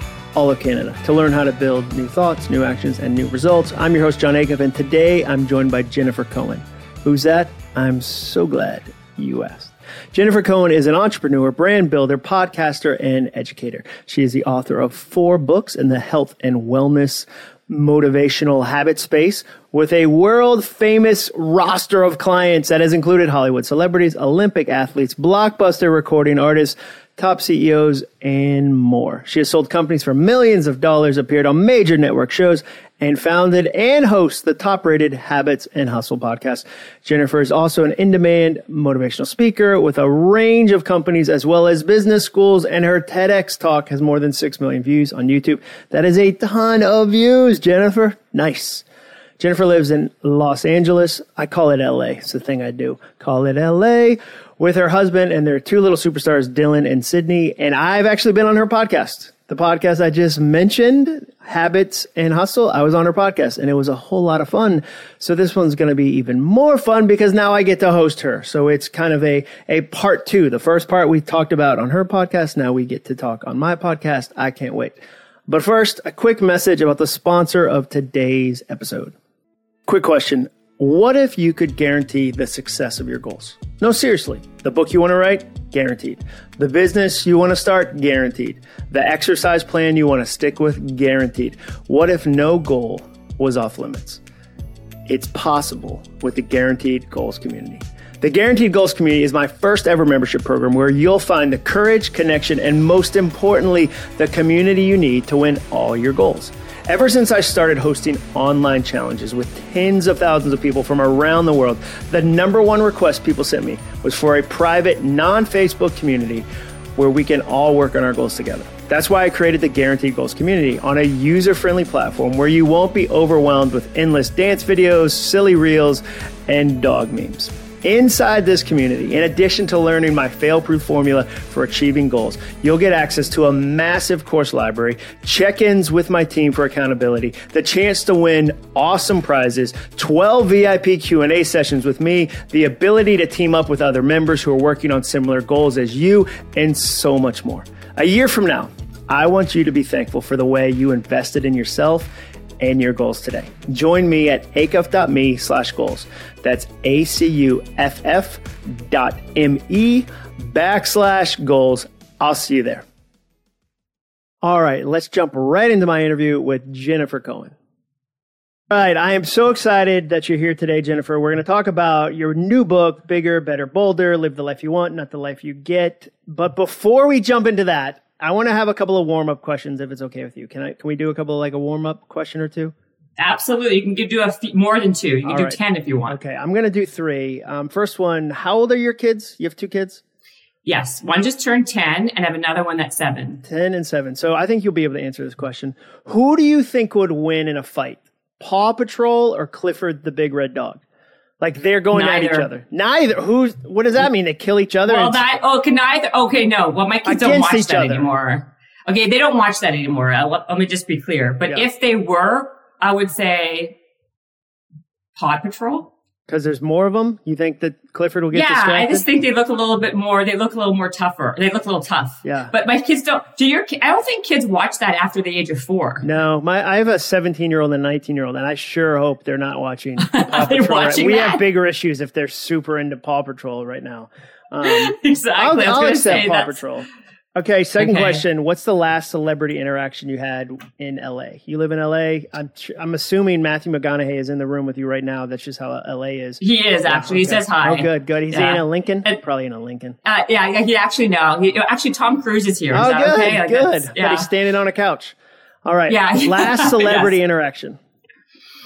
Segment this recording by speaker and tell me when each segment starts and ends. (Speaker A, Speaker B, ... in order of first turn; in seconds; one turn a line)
Speaker A: 0.3-48.8
Speaker A: 49.4-79.1
Speaker A: 79.9-94.2
Speaker A: 95.1-162.8
Speaker A: 164.4-167.5
Speaker A: 168.7-182.7
Speaker B: 183.2-186.2
Speaker A: 185.2-190.0
Speaker B: 190.7-193.4
Speaker A: 193.4-200.8
Speaker A: 201.4-205.2
Speaker B: 201.9-202.5
Speaker B: 204.9-213.7
Speaker A: 207.1-208.1
Speaker B: 215.1-215.9
Speaker A: 216.3-219.0
Speaker B: 218.3-226.0
Speaker A: 222.2-222.5
Speaker A: 226.0-249.9
Speaker B: 230.0-231.4
Speaker B: 234.6-236.6
Speaker B: 237.8-238.2
Speaker B: 246.4-249.2
Speaker B: 250.0-254.3
Speaker A: 252.7-257.8
Speaker B: 255.9-257.1